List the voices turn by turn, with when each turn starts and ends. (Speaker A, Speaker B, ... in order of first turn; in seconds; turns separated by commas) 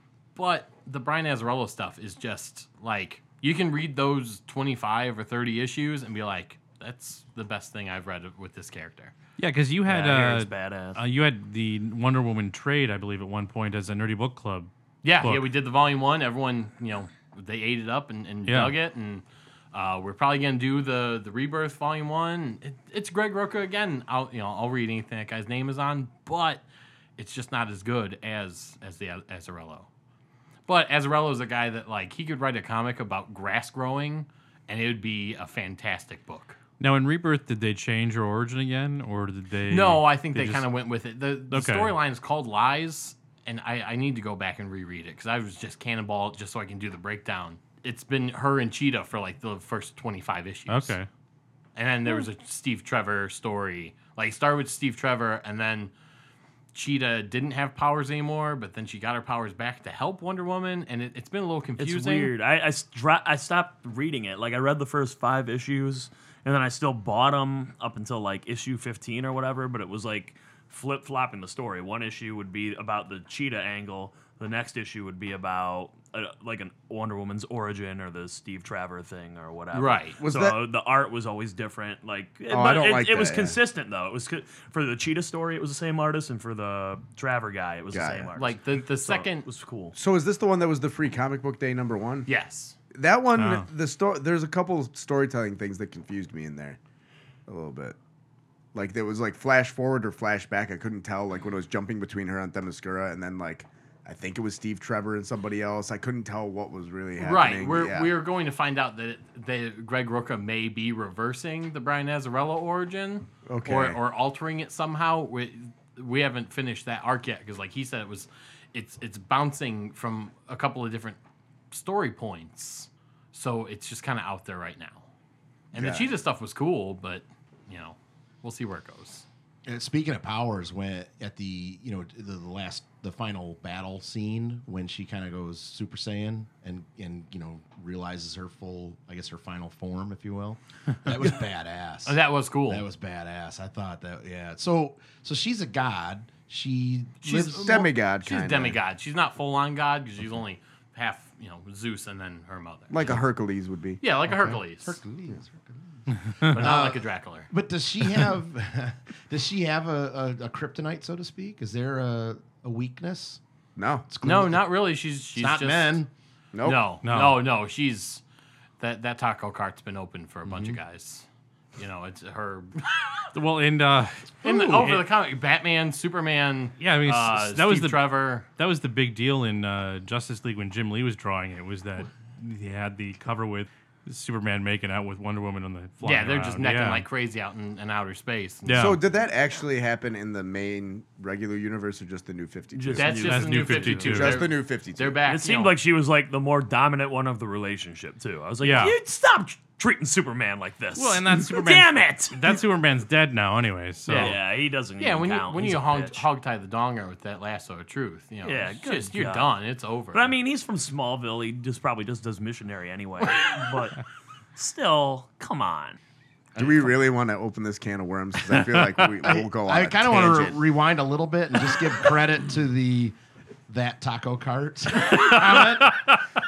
Speaker A: 0.3-9.1, Speaker B: 9.4-15.4, Speaker C: 9.8-11.0, Speaker A: 15.0-26.6, Speaker B: 18.5-18.8, Speaker A: 27.2-29.9, Speaker A: 30.7-36.6, Speaker B: 36.8-40.6, Speaker A: 39.7-51.0, Speaker B: 41.5-41.9, Speaker B: 50.7-51.1, Speaker A: 51.8-55.9, Speaker A: 56.7-62.3, Speaker C: 61.8-90.0, Speaker A: 79.7-80.2, Speaker D: 80.2-80.6, Speaker D: 82.5-83.6, Speaker D: 87.9-88.3, Speaker A: 88.4-89.5, Speaker D: 90.0-92.3, Speaker A: 92.3-92.8, Speaker D: 92.9-96.8, Speaker B: 93.4-93.7, Speaker D: 97.5-98.0, Speaker D: 98.7-108.1, Speaker A: 107.2-121.2, Speaker D: 113.5-114.0, Speaker A: 121.7-125.1, Speaker A: 125.7-129.2, Speaker D: 125.8-126.1, Speaker E: 129.7-147.8, Speaker A: 142.1-142.9, Speaker A: 147.2-153.2, Speaker D: 147.5-148.8, Speaker D: 152.9-154.0, Speaker A: 154.0-155.0, Speaker E: 154.3-163.4, Speaker B: 156.3-156.6, Speaker A: 156.4-157.5, Speaker D: 163.8-164.1, Speaker E: 164.1-164.7, Speaker A: 164.2-166.0, Speaker E: 165.4-166.1, Speaker D: 166.5-166.8, Speaker A: 166.6-168.2, Speaker B: 167.0-167.4, Speaker A: 168.8-171.2, Speaker E: 170.5-170.8, Speaker A: 171.8-173.2, Speaker B: 173.3-175.1, Speaker A: 174.4-178.5, Speaker B: 176.8-187.1, Speaker A: 186.0-189.0, Speaker B: 188.7-189.0, Speaker D: 188.8-193.3, Speaker C: 192.7-194.4, Speaker A: 192.9-195.8, Speaker B: 193.2-194.4, Speaker D: 194.1-195.2, Speaker C: 195.2-202.6, Speaker B: 198.6-199.0, Speaker B: 201.0-204.4, Speaker A: 204.1-204.4, Speaker C: 204.1-206.3, Speaker A: 205.0-210.3, Speaker C: 208.4-209.5, Speaker C: 210.1-214.0, Speaker C: 214.6-216.0, Speaker E: 216.6-216.9, Speaker D: 216.6-220.7, Speaker E: 219.2-223.2, Speaker E: 223.7-226.1, Speaker B: 225.8-226.1